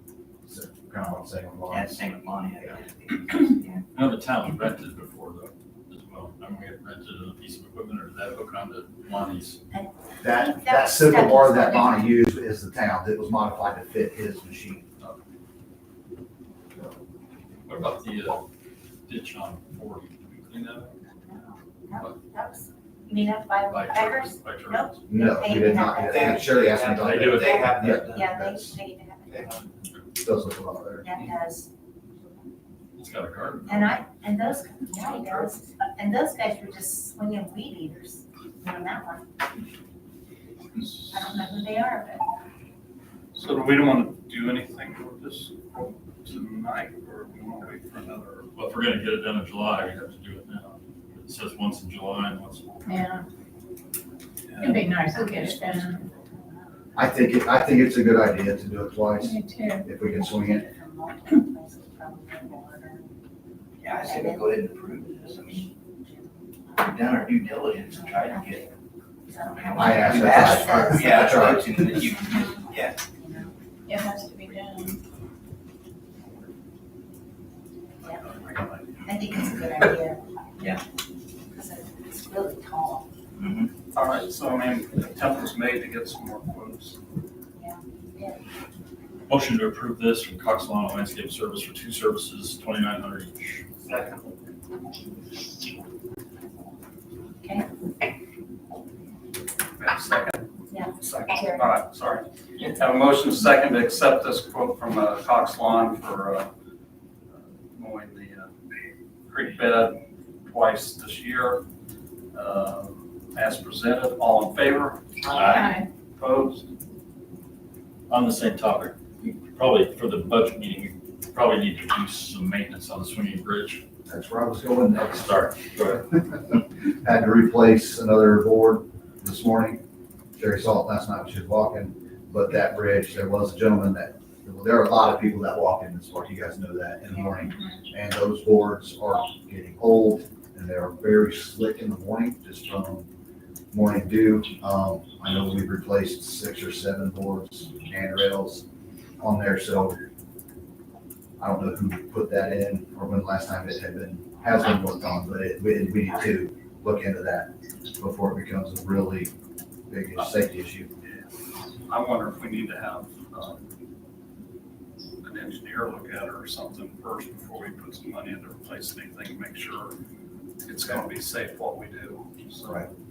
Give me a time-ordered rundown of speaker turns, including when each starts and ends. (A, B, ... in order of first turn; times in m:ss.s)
0:00.4-0:02.1 A
0:01.7-0:03.8 B
0:03.9-0:09.6 C
0:09.7-0:12.1 D
0:10.2-0:15.2 A
0:17.7-0:18.4 C
0:19.1-0:21.0 C
0:21.0-0:26.5 D
0:23.7-0:25.0 C
0:25.1-0:28.8 A
0:25.8-0:28.4 B
0:26.9-0:27.7 C
0:27.4-0:29.5 D
0:29.3-0:29.7 B
0:30.2-0:31.1 A
0:31.0-0:31.7 D
0:33.0-0:34.0 C
0:33.7-0:39.3 D
0:34.9-0:35.5 B
0:41.1-0:42.3 D
0:43.3-0:48.5 E
0:48.6-0:52.8 C
0:52.9-0:53.3 F
0:54.5-0:56.2 E
0:54.6-0:56.1 F
0:57.0-1:00.7 A
0:59.2-0:59.9 F
1:00.1-1:03.1 D
1:03.8-1:05.7 B
1:03.8-1:08.7 D
1:06.8-1:08.7 B
1:09.3-1:11.7 D
1:09.5-1:13.0 B
1:09.7-1:11.8 A
1:13.2-1:14.2 D
1:13.9-1:15.0 F
1:18.2-1:18.8 E
1:19.0-1:20.3 D
1:21.5-1:23.1 D
1:23.4-1:23.7 B
1:23.9-1:27.0 E
1:27.6-1:28.4 D
1:29.3-1:33.7 C
1:33.8-1:34.3 E
1:37.4-1:37.7 D
1:39.8-1:46.5 E
1:40.7-1:41.7 D
1:47.8-1:48.5 E
1:49.3-1:51.6 E
1:52.3-1:56.7 E
1:55.3-1:55.7 C
1:55.5-1:55.9 F
1:58.1-2:03.8 C
2:04.1-2:09.8 A
2:05.2-2:06.0 C
2:10.4-2:23.1 A
2:23.7-2:28.6 A
2:29.2-2:30.0 A
2:31.4-2:39.3 A
2:39.9-2:40.9 A
2:41.0-2:41.3 E
2:41.9-2:43.6 E
2:45.2-2:50.0 E
2:50.6-2:52.9 E